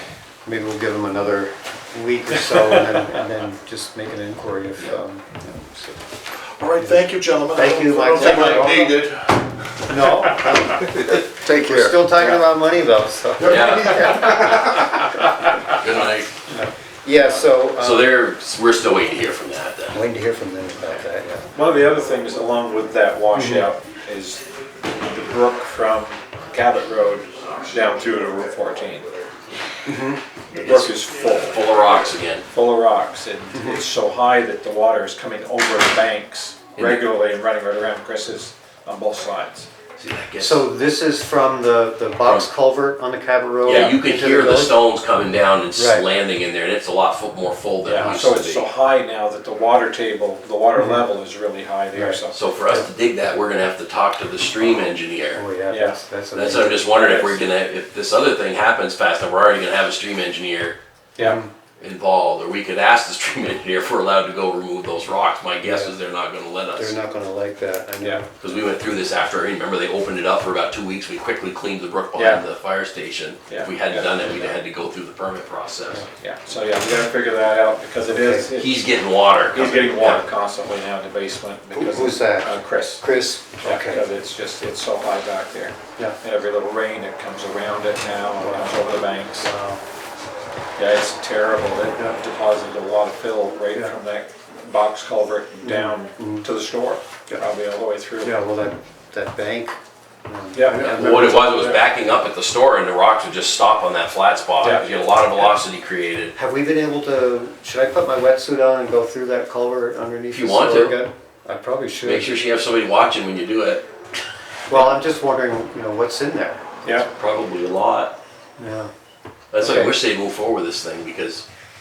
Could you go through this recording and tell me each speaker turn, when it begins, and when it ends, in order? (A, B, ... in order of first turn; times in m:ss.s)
0:00.4-0:06.0 A
0:06.6-0:09.4 B
0:06.8-0:09.0 A
0:09.8-0:15.4 A
0:13.4-0:14.0 C
0:13.5-0:14.6 B
0:15.7-0:16.5 C
0:17.0-0:18.2 A
0:17.8-0:20.0 C
0:19.9-0:21.5 A
0:21.5-0:29.1 D
0:23.3-0:23.7 A
0:29.8-0:30.2 A
0:30.5-0:31.9 D
0:31.4-0:32.5 C
0:32.5-0:39.7 D
0:33.5-0:33.8 A
0:36.8-0:37.0 C
0:40.0-0:40.6 C
0:40.4-0:44.8 A
0:42.2-0:42.5 C
0:43.6-0:48.7 C
0:45.8-0:46.1 A
0:47.8-0:52.4 D
0:48.0-0:48.3 A
0:50.8-0:51.0 A
0:51.9-0:52.9 A
0:52.3-0:55.4 C
0:55.3-0:56.9 A
0:55.7-0:56.0 D
0:56.3-1:00.8 C
0:56.8-0:57.5 D
1:01.2-1:01.5 A
1:01.8-1:07.0 C
1:05.6-1:05.9 A
1:06.8-1:08.3 A
1:08.4-1:16.1 C
1:12.2-1:12.4 D
1:13.5-1:14.6 D
1:16.2-1:18.9 D
1:18.1-1:18.5 A
1:18.6-1:20.2 C
1:19.5-1:23.1 D
1:21.7-1:24.0 A
1:23.6-1:29.5 D
1:28.4-1:29.8 A
1:30.8-1:38.4 D
1:33.7-1:34.0 A
1:35.6-1:36.5 A
1:38.2-1:41.8 A
1:40.5-1:40.9 D
1:40.8-1:46.3 C
1:41.5-1:41.8 D
1:44.6-1:45.0 D
1:46.4-1:52.4 A
1:50.3-1:51.0 C
1:52.0-1:53.9 C
1:54.7-1:56.7 A
1:57.0-1:58.2 C
1:58.6-1:58.9 A
1:59.5-2:01.4 C
1:59.6-1:59.9 A